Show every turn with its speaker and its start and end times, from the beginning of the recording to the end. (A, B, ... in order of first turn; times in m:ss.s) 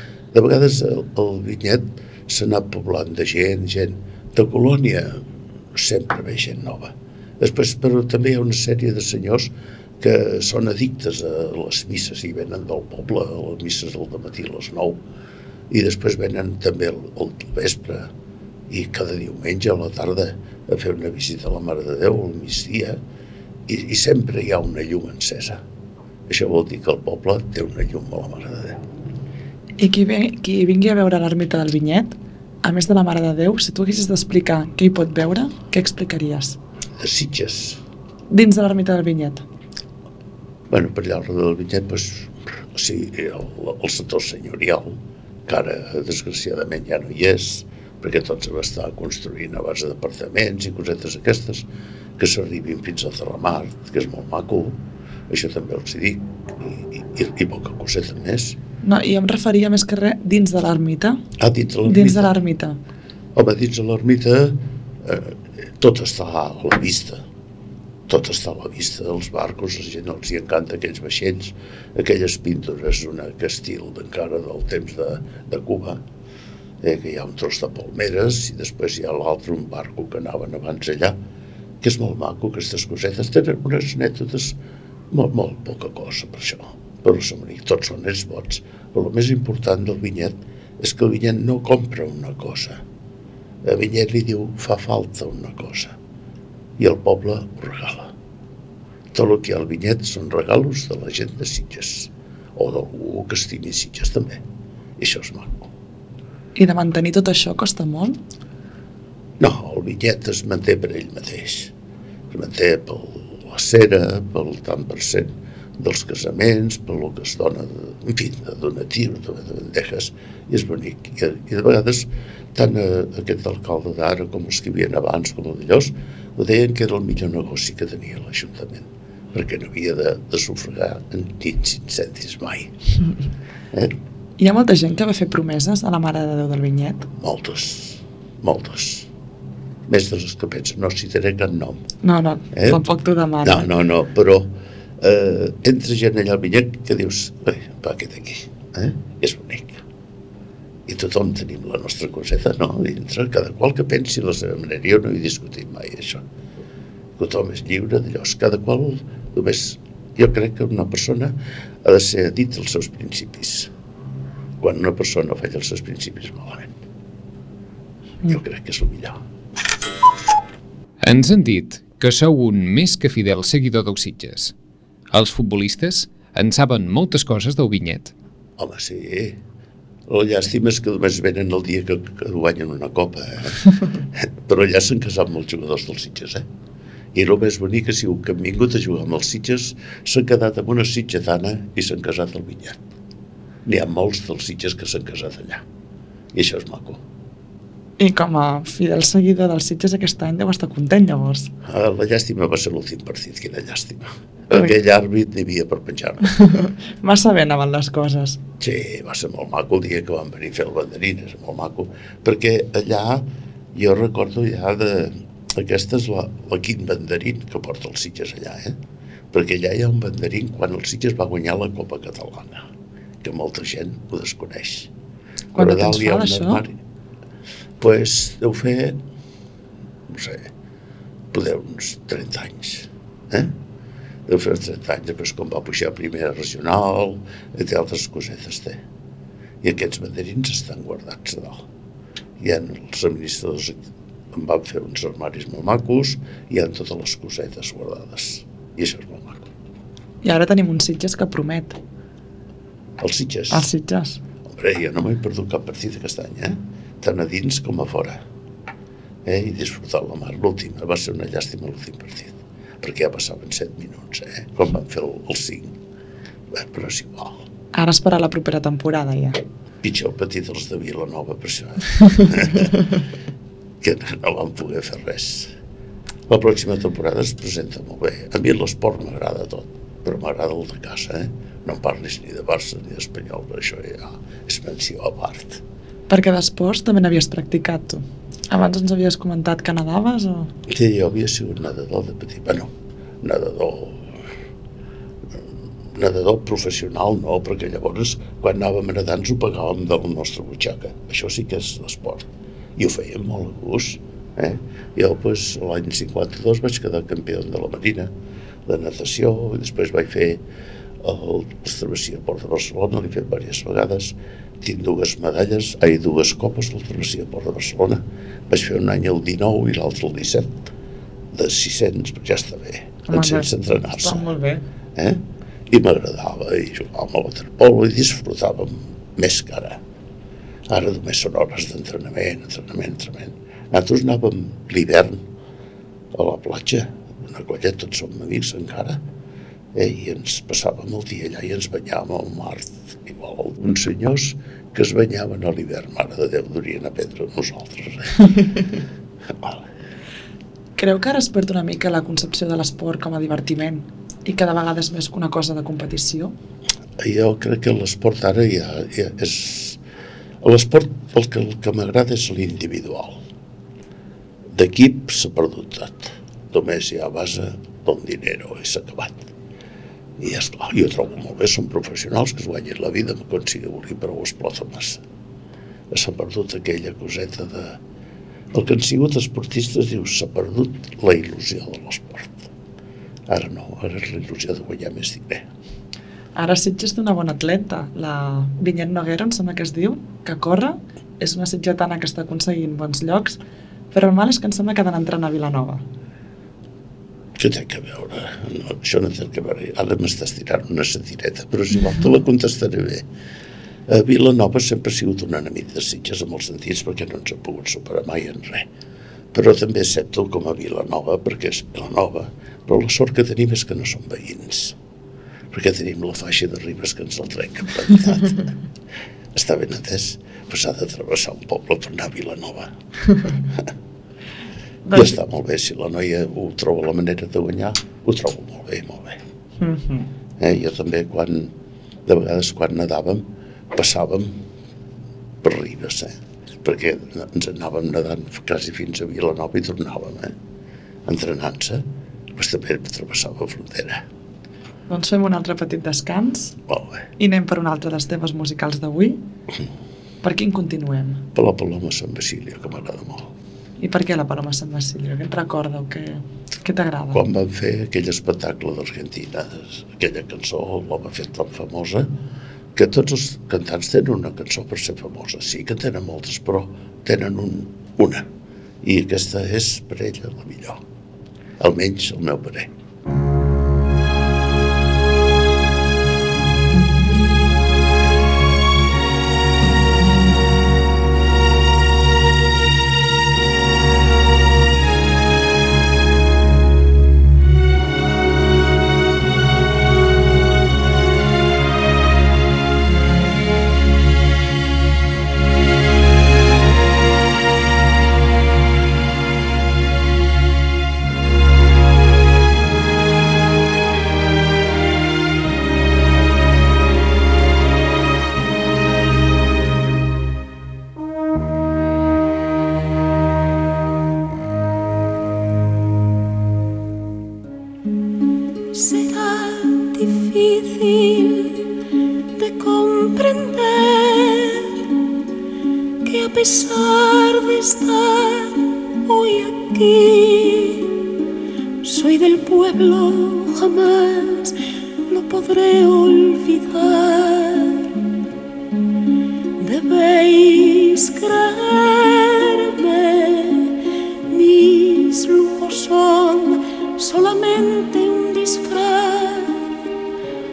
0:00.3-0:05.2 A
0:05.7-0:15.0 A
0:15.7-0:18.1 A
0:18.7-0:23.0 A
0:23.7-0:25.6 A
0:26.3-0:28.8 A
0:29.8-0:36.6 B
0:37.0-0:37.8 A
0:38.3-0:39.4 B
0:40.7-0:54.8 A
0:55.3-0:58.6 A
0:58.8-1:01.2 B
1:01.4-1:02.3 A
1:01.8-1:02.8 B
1:03.3-1:07.2 A
1:08.1-1:16.0 A
1:16.8-1:21.2 A
1:21.8-1:24.6 A
1:25.1-1:32.8 A
1:33.6-1:36.0 A
1:36.8-1:38.1 A
1:39.1-1:44.4 A
1:45.0-1:45.7 A
1:46.6-1:48.2 B
1:49.4-1:51.7 A
1:52.3-2:12.7 A
2:14.4-2:17.1 B
2:17.2-2:19.1 A
2:19.9-2:21.8 A
2:22.0-2:23.7 B
2:22.5-2:22.8 A
2:23.4-2:29.8 A
2:30.8-2:36.2 A
2:37.2-2:43.7 A
2:44.6-2:46.7 A
2:48.3-2:49.2 A
2:51.0-2:54.5 C
2:55.1-2:58.1 C
2:58.6-2:59.4 A
3:00.1-3:06.4 A
3:07.1-3:12.8 A
3:13.6-3:15.6 A
3:16.3-3:17.0 A
3:18.0-3:21.5 B
3:21.6-3:26.3 A
3:26.3-3:28.4 B
3:28.6-3:38.8 A
3:39.3-3:42.6 A
3:43.2-3:44.9 A
3:45.5-3:46.6 B
3:45.5-3:46.7 A
3:47.8-3:49.0 A
3:50.1-3:50.5 A
3:51.3-3:53.5 A
3:54.3-3:58.8 A
3:59.6-4:01.6 A
4:02.4-4:03.8 A
4:04.3-4:09.5 A
4:10.2-4:11.8 B
4:13.0-4:13.7 A
4:13.5-4:14.2 B
4:14.4-4:18.2 A
4:19.2-4:25.8 A
4:26.5-4:27.5 A
4:27.7-4:29.4 B
4:29.8-4:32.9 A
4:33.8-4:35.5 A
4:36.3-4:45.6 A
4:46.1-4:50.5 B
4:50.7-4:54.1 A
4:55.9-5:08.1 A
5:08.6-5:10.4 A
5:11.0-5:20.7 A
5:21.3-5:24.3 A
5:23.1-5:24.6 B
5:25.0-5:29.8 A
5:30.7-5:35.2 A
5:36.1-5:39.0 A
5:39.7-5:48.7 A
5:49.3-5:49.7 A
5:50.8-5:56.3 B
5:57.0-5:59.8 A
6:00.4-6:03.2 A
6:04.5-6:09.3 A
6:10.2-6:15.0 A
6:15.9-6:17.8 A
6:18.5-6:22.5 A
6:23.3-6:25.5 A
6:26.4-6:33.4 B
6:33.9-6:35.8 B
6:37.4-6:43.0 A
6:43.9-6:48.7 A
6:49.3-6:54.8 A
6:55.5-6:58.5 A
6:59.3-7:02.7 A
7:03.2-7:03.7 A
7:04.8-7:05.1 B
7:04.9-7:09.2 A
7:09.6-7:10.1 B
7:10.4-7:11.5 A
7:12.0-7:14.4 A
7:15.4-7:20.3 A
7:21.0-7:24.0 A
7:24.9-7:26.6 B
7:26.7-7:27.1 A
7:27.2-7:29.2 B
7:30.2-7:31.2 B
7:31.3-7:33.3 A
7:33.8-7:37.2 B
7:37.1-7:42.1 A
7:42.7-7:48.3 A
7:48.8-7:50.8 A
7:51.6-7:52.7 A
8:38.7-8:41.6 D
8:42.4-8:44.8 D
8:46.0-8:51.0 D
8:51.8-8:54.6 D
8:55.1-8:58.0 D
8:59.6-9:03.8 D
9:04.3-9:09.6 D